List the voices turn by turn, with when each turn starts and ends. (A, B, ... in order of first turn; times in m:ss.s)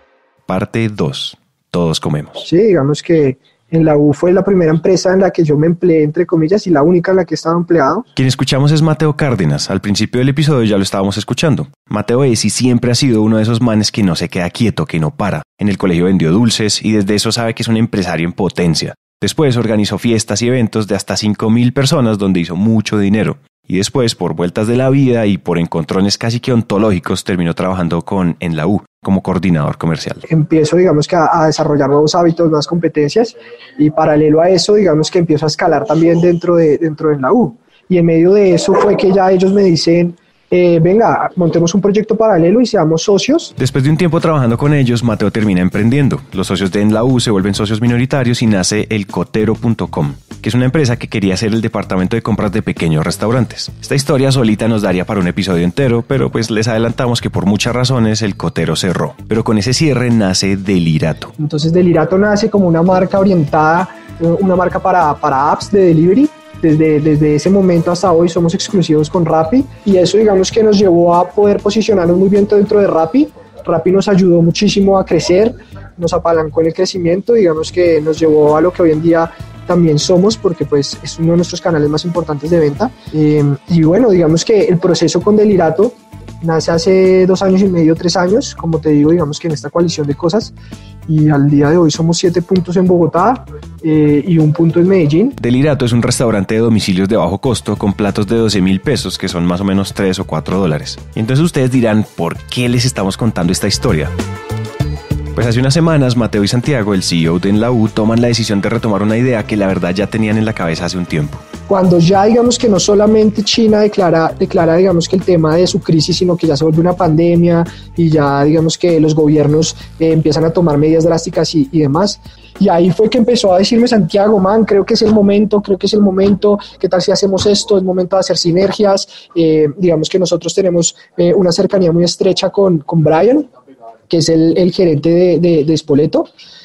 0:00.5-0:02.4 A
0:02.4-0:08.1 B
0:08.2-0:30.2 A
0:30.3-0:43.5 B
0:43.6-1:01.3 A
1:01.4-1:30.5 B
1:31.1-1:35.4 B
1:35.4-1:44.1 A
1:45.3-1:51.4 A
1:51.7-2:13.5 B
2:14.1-2:16.3 B